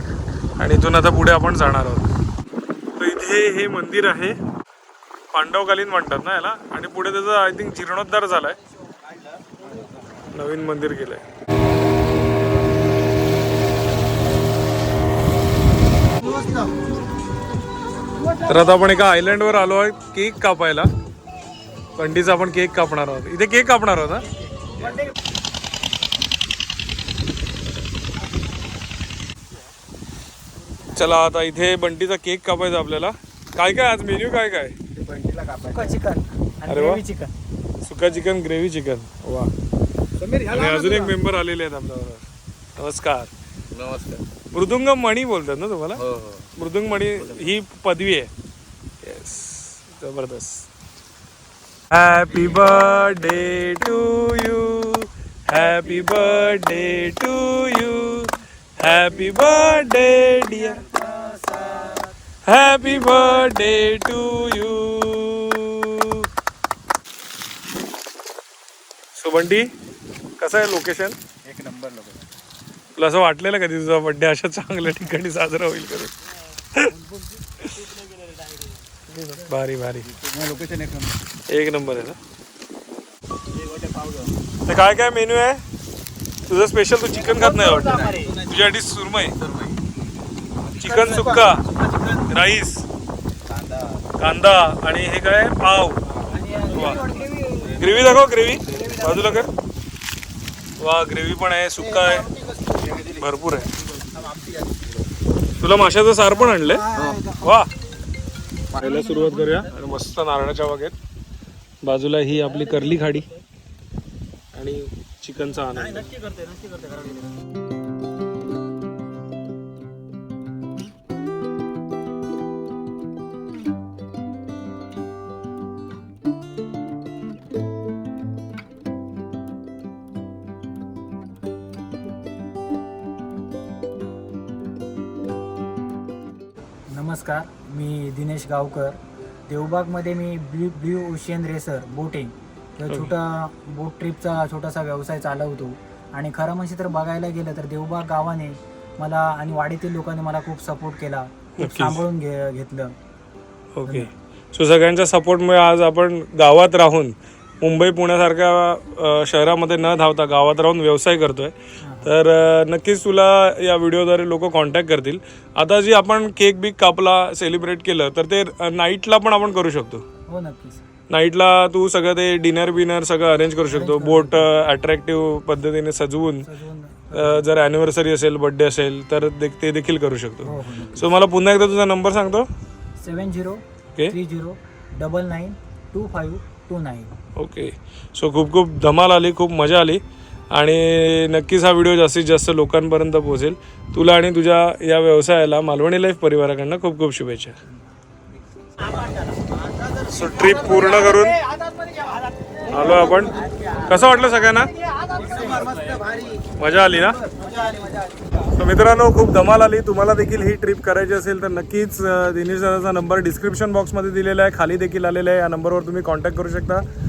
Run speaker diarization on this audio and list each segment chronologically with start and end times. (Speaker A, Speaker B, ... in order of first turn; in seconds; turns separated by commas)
Speaker A: 0.6-2.1, Speaker A: 3.0-4.4, Speaker A: 5.3-8.6, Speaker A: 10.3-11.2, Speaker A: 18.4-20.9, Speaker A: 22.0-24.3, Speaker B: 24.8-25.1, Speaker A: 30.9-34.8, Speaker B: 35.0-37.3, Speaker A: 36.7-37.0, Speaker A: 37.8-39.5, Speaker B: 40.2-41.1, Speaker A: 40.5-42.2, Speaker A: 42.8-43.3, Speaker C: 43.8-44.2, Speaker A: 44.5-46.0, Speaker C: 46.0-46.4, Speaker A: 46.6-48.3, Speaker A: 49.0-50.7, Speaker A: 51.9-60.9, Speaker B: 61.0-62.0, Speaker A: 62.5-66.3, Speaker A: 69.2-69.7, Speaker A: 70.4-71.2, Speaker B: 71.5-72.2, Speaker A: 73.0-76.1, Speaker A: 79.1-80.1, Speaker B: 80.4-81.1, Speaker A: 81.5-82.2, Speaker C: 83.6-84.3, Speaker A: 84.7-85.6, Speaker A: 86.5-89.4, Speaker B: 87.1-88.4, Speaker C: 89.4-89.8, Speaker C: 90.7-91.6, Speaker A: 90.8-91.7, Speaker A: 92.2-92.9, Speaker C: 93.6-94.0, Speaker A: 94.2-96.0, Speaker B: 96.3-97.9, Speaker A: 96.7-97.0, Speaker A: 97.7-99.5, Speaker A: 100.8-102.3, Speaker C: 102.8-103.2, Speaker A: 103.1-103.7, Speaker C: 104.1-104.8, Speaker A: 105.6-107.7, Speaker A: 108.8-111.0, Speaker A: 111.8-113.3, Speaker A: 114.5-116.1, Speaker B: 116.2-117.2, Speaker B: 136.9-152.9, Speaker A: 142.9-143.1, Speaker A: 151.6-152.0, Speaker A: 153.8-170.0, Speaker B: 161.8-162.1, Speaker B: 170.3-170.8, Speaker A: 171.1-176.5, Speaker B: 173.7-174.5, Speaker B: 176.4-177.5, Speaker A: 177.1-182.5, Speaker B: 180.4-181.1, Speaker B: 183.0-187.2, Speaker A: 187.4-197.6, Speaker B: 198.8-206.2, Speaker A: 200.1-201.4, Speaker A: 202.7-204.7, Speaker A: 206.6-207.2, Speaker B: 207.2-208.2, Speaker A: 208.5-216.8